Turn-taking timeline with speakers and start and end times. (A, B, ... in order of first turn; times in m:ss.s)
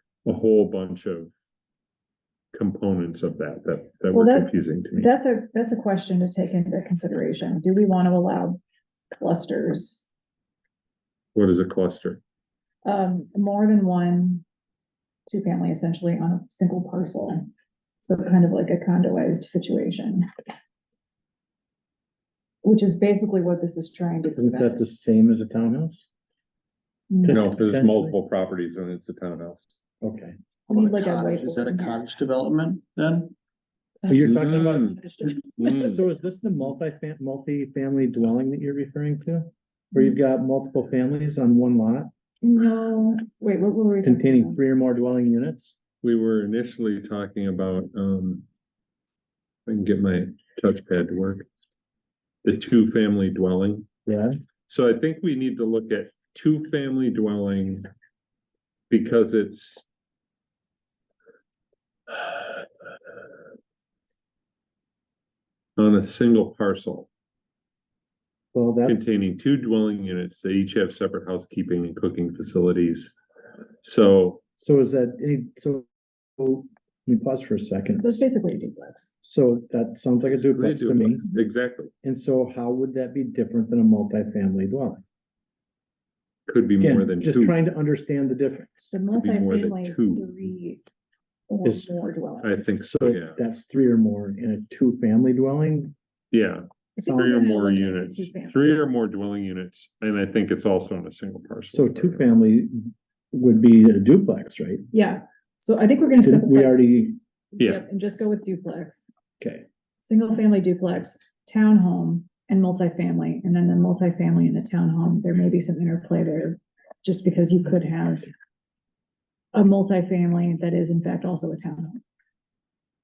0:00.2-0:01.3 A
0:02.5-0:05.1 A
0:04.1-0:08.6 B
0:09.1-0:10.0 B
0:11.4-0:12.2 A
0:12.8-0:14.4 B
0:15.3-0:17.5 B
0:18.0-0:20.3 B
0:22.6-0:24.9 B
0:24.4-0:26.1 C
0:27.1-0:27.4 B
0:27.2-0:28.1 C
0:27.3-0:29.8 A
0:30.0-0:30.4 C
0:30.7-0:33.3 D
0:30.7-0:32.0 B
0:34.0-0:36.0 B
0:34.1-0:34.9 C
0:34.2-0:35.0 A
0:35.6-0:36.0 A
0:35.6-0:42.1 C
0:42.4-0:44.6 B
0:44.0-0:45.8 C
0:46.0-0:48.5 A
0:49.7-0:51.5 A
0:52.4-0:53.9 A
0:54.1-0:54.4 C
0:54.7-0:57.9 A
0:58.9-0:59.8 A
1:02.1-1:02.6 A
1:05.8-1:07.1 A
1:08.5-1:09.0 C
1:08.9-1:13.1 A
1:13.8-1:14.4 A
1:14.6-1:15.9 C
1:16.4-1:18.3 C
1:18.0-1:19.1 B
1:19.2-1:21.3 C
1:20.3-1:21.9 A
1:22.0-1:25.0 C
1:26.5-1:27.6 A
1:26.8-1:29.0 C
1:28.9-1:30.8 B
1:29.1-1:30.3 A
1:31.5-1:32.8 B
1:31.6-1:31.9 C
1:32.4-1:33.4 A
1:32.8-1:35.9 C
1:36.3-1:42.3 A
1:37.0-1:38.8 B
1:41.7-1:44.8 C
1:44.9-1:46.9 B
1:46.2-1:47.2 C
1:47.5-1:49.1 B
1:49.4-1:49.7 C
1:50.0-1:58.3 B
1:59.5-2:02.0 B